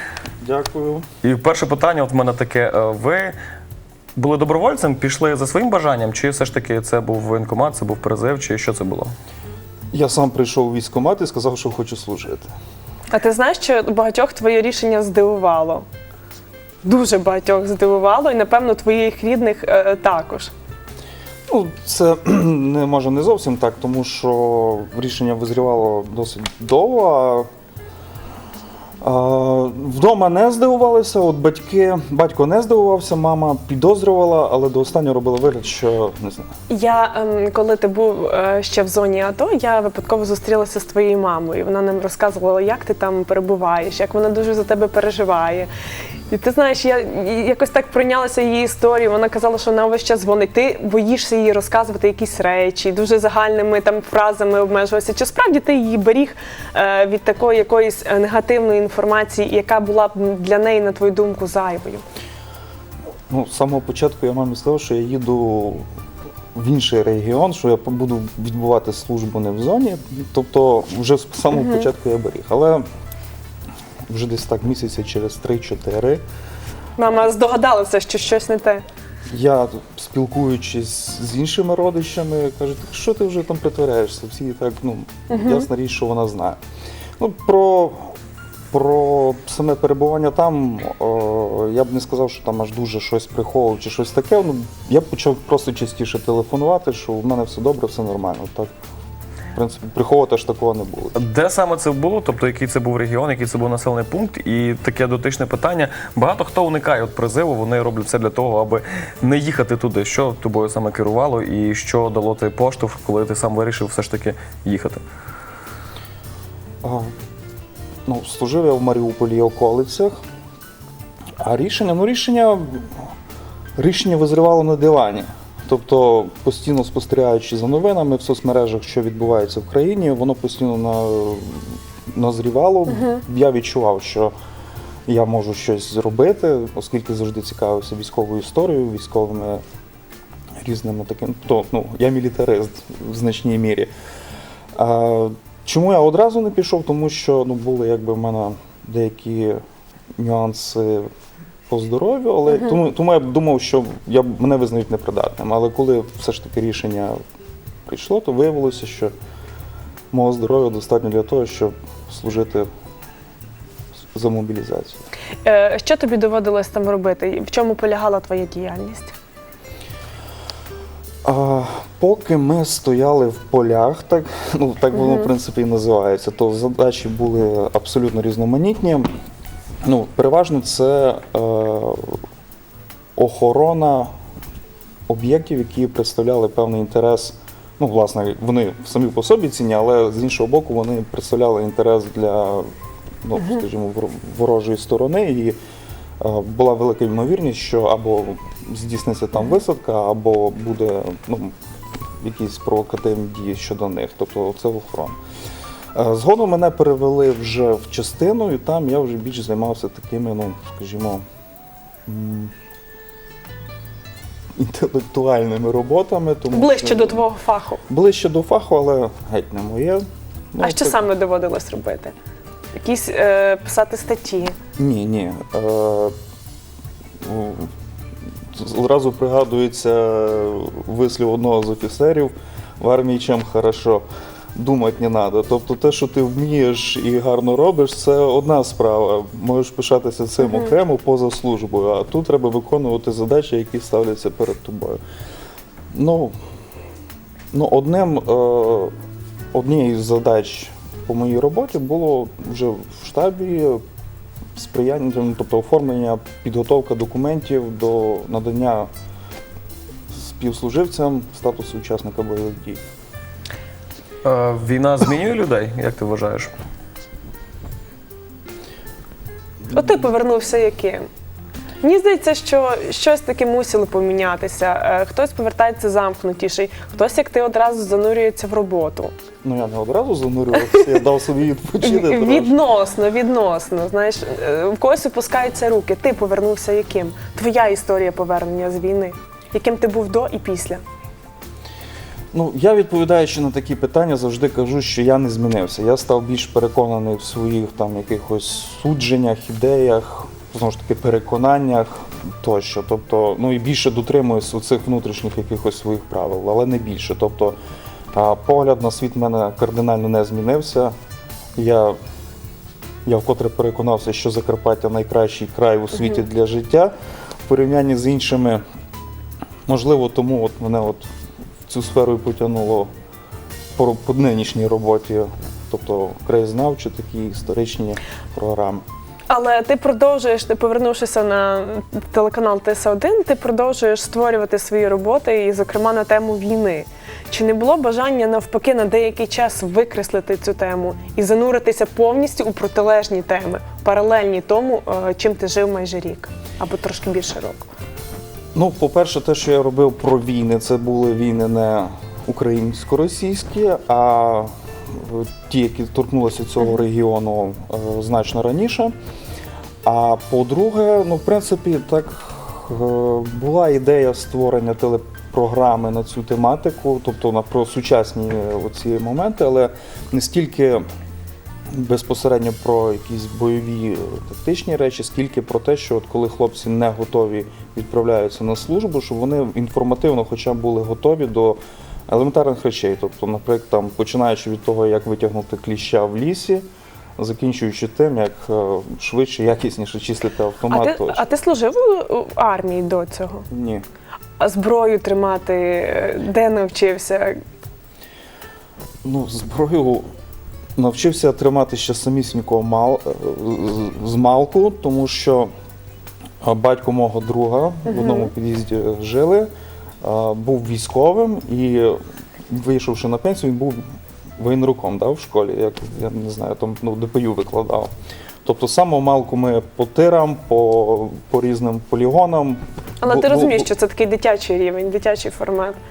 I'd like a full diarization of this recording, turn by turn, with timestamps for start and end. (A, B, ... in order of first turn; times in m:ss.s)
0:00.4-0:01.1 A
0:01.2-0:03.3 B
0:04.2-0:09.1 B
0:09.9-0:12.5 A
0:13.1-0:15.8 C
0:16.8-0:20.5 C
0:21.5-0:27.5 A
0:29.0-0:36.4 A
0:36.7-0:45.7 C
0:46.3-1:02.0 C
1:03.3-1:05.8 A
1:06.5-1:12.8 A
1:11.5-1:11.9 C
1:14.1-1:16.2 A
1:17.0-1:18.8 C
1:19.3-1:26.6 A
1:25.3-1:25.7 C
1:27.2-1:28.1 A
1:28.7-1:38.7 A
1:39.5-1:41.2 A
1:41.2-1:55.0 B
1:56.8-1:57.1 A
1:58.0-2:00.1 A
2:01.4-2:03.1 A
2:03.8-2:14.3 A
2:15.1-2:19.6 A
2:20.6-2:23.9 A
2:24.7-2:29.6 A
2:30.2-2:31.1 A
2:31.7-2:37.2 A
2:37.9-2:39.1 A
2:40.1-2:42.7 A
2:44.1-2:45.0 A
2:45.4-2:49.1 C
2:51.2-2:59.0 A
2:54.9-2:55.3 C
2:59.8-3:02.2 A
3:03.2-3:04.1 A
3:05.1-3:12.7 A
3:13.2-3:15.6 A
3:16.2-3:21.5 A
3:22.2-3:25.2 A
3:25.9-3:31.2 A
3:32.0-3:32.5 A
3:34.6-3:37.2 A
3:36.5-3:37.8 C
3:37.9-3:41.0 A
3:40.6-3:42.1 C
3:42.8-3:44.5 C
3:44.8-3:46.1 A
3:47.2-3:47.7 A
3:48.5-3:54.0 A
3:54.6-4:05.0 A
4:05.9-4:06.3 A
4:07.5-4:08.9 A
4:09.5-4:13.8 A
4:14.6-4:18.9 A
4:20.1-4:22.8 A
4:24.2-4:26.5 B
4:29.7-4:31.1 C
4:31.8-4:39.1 C
4:39.4-4:42.5 A
4:41.8-4:50.8 C
4:52.3-5:07.6 A
5:08.1-5:10.9 A
5:11.6-5:12.0 A
5:13.0-5:16.9 A
5:17.5-5:18.6 A
5:19.6-5:21.1 A
5:21.6-5:22.9 A
5:23.8-5:28.8 A
5:29.3-5:47.7 C
5:48.5-5:58.9 A
5:59.8-6:10.8 A
6:11.7-6:26.6 A
6:27.2-6:31.2 A
6:30.7-6:33.4 C
6:33.5-6:33.8 A
6:34.4-6:37.4 C
6:39.0-6:40.1 A
6:40.8-6:45.5 A
6:46.4-6:49.5 A
6:47.9-6:48.3 C
6:50.0-6:53.8 A
6:54.4-6:57.9 A
6:58.4-7:03.7 A
7:03.0-7:05.8 C